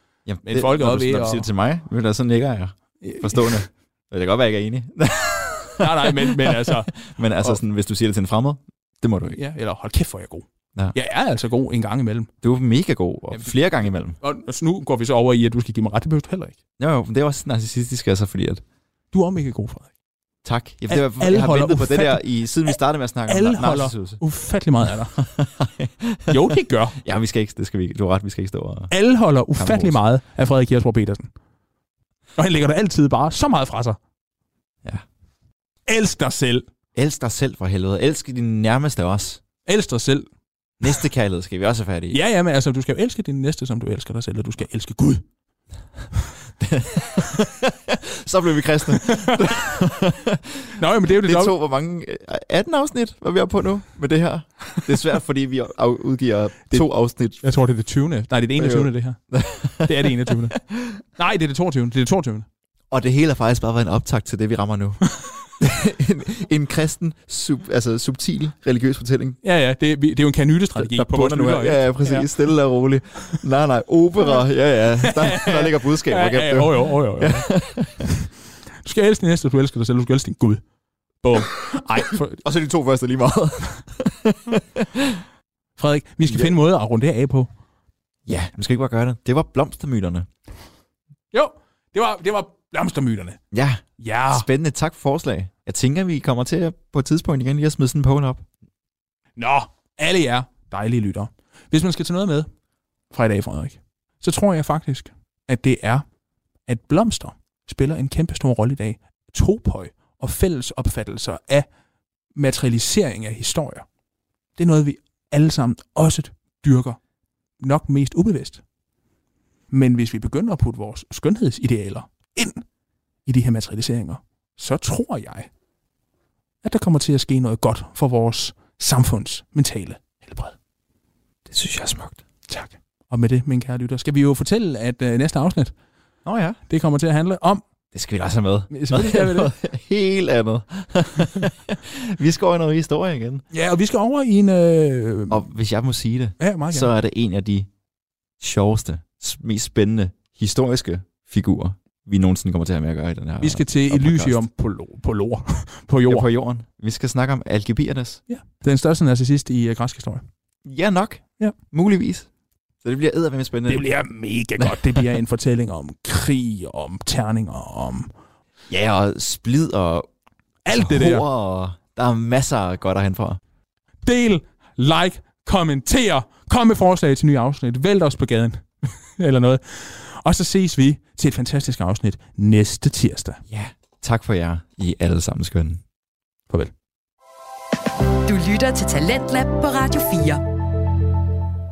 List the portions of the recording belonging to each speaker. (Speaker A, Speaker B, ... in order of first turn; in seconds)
Speaker A: 0.2-9.4, 12.4-14.2, 16.8-18.6, 20.4-24.2, 25.1-28.9, 29.5-30.0, 36.9-39.4, 40.8-42.2, 46.6-57.4, 58.5-61.0, 62.9-69.4, 70.7-78.1, 82.4-85.2, 86.2-86.5, 88.2-90.3, 93.5-98.5, 131.5-132.2, 136.2-136.6, 137.9-143.4, 145.3-147.7, 148.4-154.4, 156.1-158.2, 160.6-162.3, 162.8-163.9, 164.6-165.1, 168.7-170.1, 170.7-173.4, 183.5-185.8
Speaker B: 0.4-1.5, 3.0-3.6, 5.8-7.6, 9.3-12.3, 13.3-16.6, 19.1-19.9, 20.9-25.2, 26.3-27.0, 28.9-31.3, 32.4-34.0, 35.9-36.6, 39.6-40.3, 42.1-45.2, 49.0-49.4, 50.8-51.5, 57.4-59.2, 59.8-60.6, 61.1-62.5, 69.4-72.3, 75.0-77.9, 78.8-80.6, 81.2-82.4, 85.8-87.5, 91.3-93.4, 94.0-94.5, 99.4-102.5, 103.1-106.0, 106.7-111.7, 112.3-113.8, 114.6-117.0, 117.6-118.6, 119.7-122.6, 123.2-125.5, 126.6-130.6, 132.5-135.7, 136.7-137.6, 138.7-139.5, 143.5-145.4, 146.4-146.9, 153.4-156.3, 158.3-160.2, 163.7-168.1, 170.6-171.2, 174.1-183.4
Speaker C: 188.2-190.4